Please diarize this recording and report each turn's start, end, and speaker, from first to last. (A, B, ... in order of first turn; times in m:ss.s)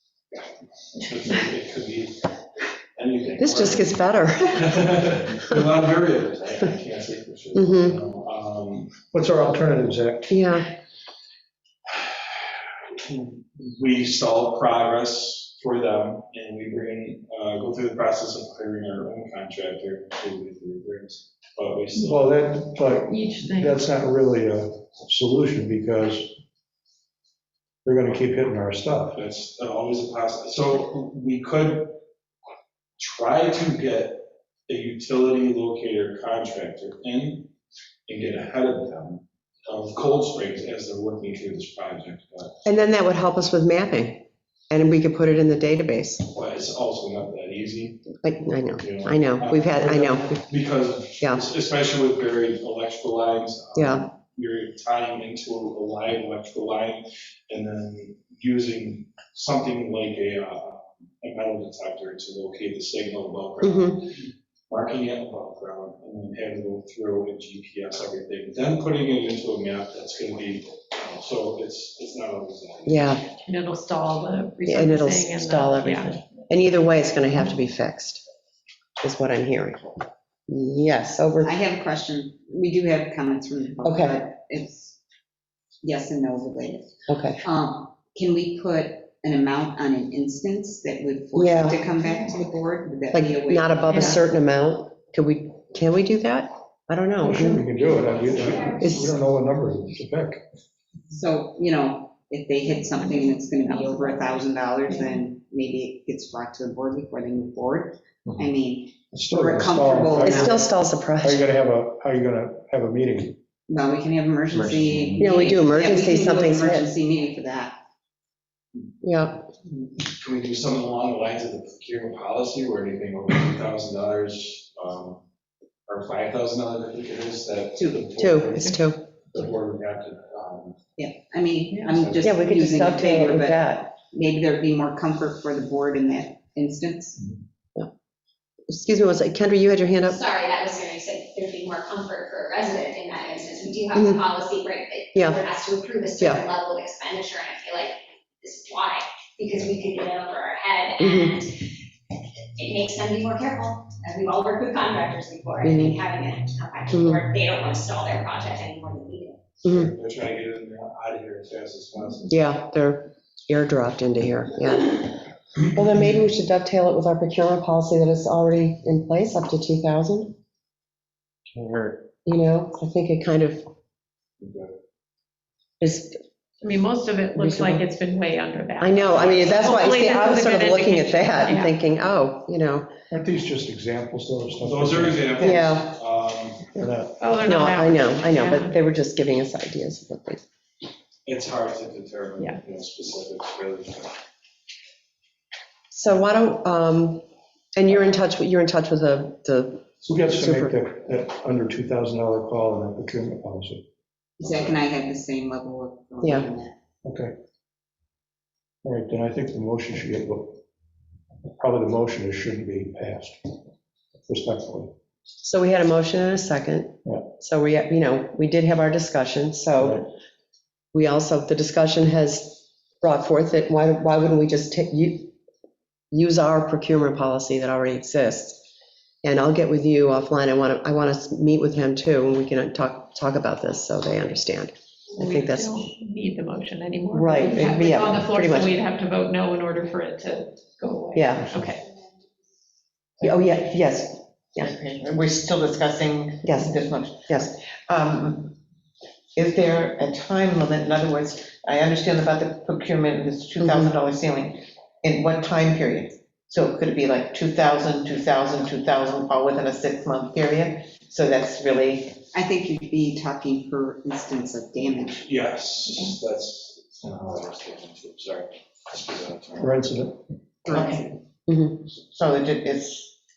0:00.3-0:02.2 A
0:03.0-0:04.0 A
0:03.4-0:05.6 B
0:04.5-0:09.0 A
0:07.5-0:08.0 B
0:09.1-0:10.3 C
0:10.3-0:10.7 B
0:11.9-0:22.4 A
0:22.0-0:26.4 C
0:22.9-0:23.8 D
0:27.8-0:29.2 C
0:29.1-0:32.0 A
0:33.0-0:37.5 A
0:38.1-0:42.6 A
0:42.6-0:46.3 B
0:46.3-0:48.2 A
0:48.2-0:50.4 B
0:48.8-1:13.2 A
0:53.8-0:54.0 B
1:03.6-1:04.0 B
1:12.9-1:13.2 B
1:13.4-1:16.4 D
1:14.7-1:18.2 B
1:19.0-1:21.6 B
1:21.4-1:25.0 E
1:23.8-1:24.2 B
1:25.8-1:26.9 E
1:27.1-1:27.4 B
1:27.4-1:34.2 E
1:31.3-1:31.8 B
1:33.1-1:37.7 B
1:33.9-1:34.2 D
1:37.2-1:40.4 C
1:37.3-1:37.6 D
1:38.0-1:39.1 F
1:38.8-1:39.2 B
1:41.1-1:50.7 E
1:42.7-1:45.2 D
1:49.1-1:50.7 C
1:50.1-1:51.5 B
1:51.2-1:53.4 C
1:53.7-1:57.8 E
1:55.2-1:56.9 B
1:59.0-1:59.5 B
1:59.6-2:05.2 A
2:05.9-2:08.8 A
2:08.2-2:09.0 B
2:09.3-2:10.8 A
2:11.0-2:17.2 E
2:11.8-2:12.4 A
2:12.2-2:13.9 B
2:18.7-2:20.2 B
2:20.1-2:31.7 F
2:23.9-2:24.2 B
2:25.1-2:25.4 B
2:26.2-2:26.4 B
2:31.0-2:31.4 B
2:32.6-2:39.4 F
2:35.6-2:36.0 B
2:36.9-2:37.2 B
2:39.6-2:39.9 B
2:39.6-2:42.4 A
2:42.3-2:50.3 B
2:52.2-2:53.6 B
2:54.4-2:54.7 A
2:55.8-2:56.2 B
2:56.6-3:01.8 D
2:57.4-2:57.8 B
2:58.8-3:02.9 B
2:59.2-2:59.7 A
3:03.1-3:05.3 C
3:04.6-3:06.7 A
3:05.4-3:06.0 B
3:06.8-3:07.2 C
3:07.2-3:08.7 D
3:07.4-3:10.4 B
3:11.2-3:14.2 A
3:15.9-3:20.8 B
3:20.0-3:23.8 C
3:24.4-3:26.7 E
3:26.2-3:26.5 B
3:27.0-3:27.3 C
3:28.8-3:30.6 C
3:31.6-3:33.6 C
3:34.3-3:34.9 C
3:35.4-3:40.0 B
3:40.9-3:45.3 B
3:46.1-3:48.6 B
3:49.2-3:55.8 B
3:55.2-4:01.8 D
3:57.1-3:58.7 B
4:01.1-4:01.6 B
4:03.2-4:04.7 B
4:04.6-4:08.5 G
4:06.4-4:07.5 B
4:09.4-4:22.2 G
4:13.6-4:13.9 B
4:22.3-4:25.2 E
4:25.2-4:29.8 A
4:29.6-4:30.2 C
4:30.6-4:31.1 E
4:30.6-4:31.0 G
4:31.5-4:31.8 B
4:32.0-4:33.1 G